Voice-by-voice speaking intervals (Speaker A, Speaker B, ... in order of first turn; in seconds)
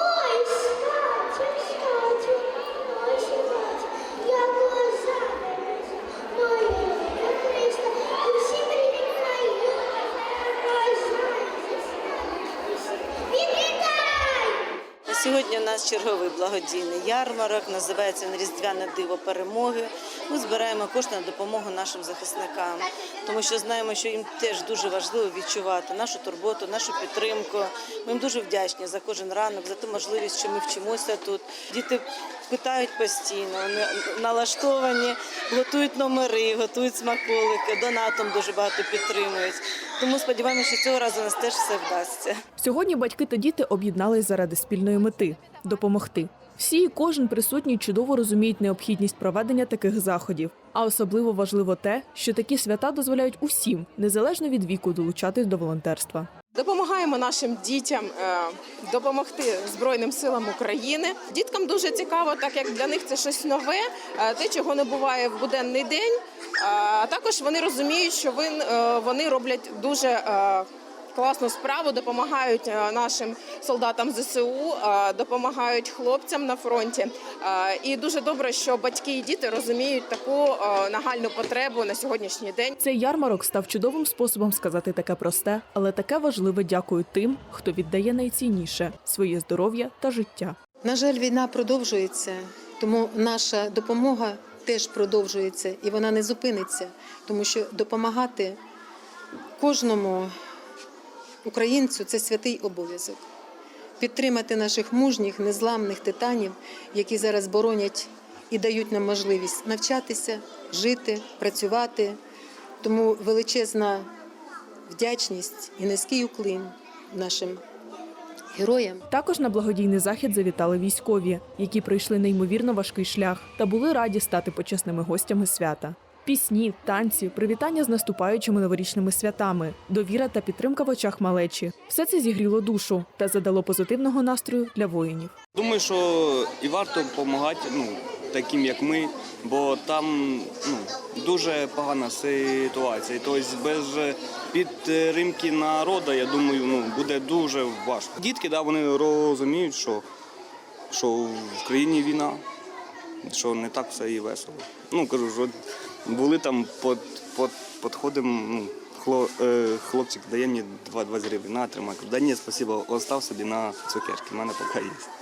Speaker A: 0.3-0.6, 1.2-2.4, 4.2-5.3, 6.7-9.6, 15.1-42.4
Speaker B: 42.6-56.3, 82.8-90.6, 119.1-135.3
Speaker C: 56.5-82.8
Speaker D: 90.8-98.6, 99.6-100.3, 101.4-103.2, 104.0-112.2, 112.8-114.1, 114.9-117.6, 118.5-119.1
Speaker E: 135.6-150.0, 150.9-152.4, 153.2-155.5, 156.1-165.1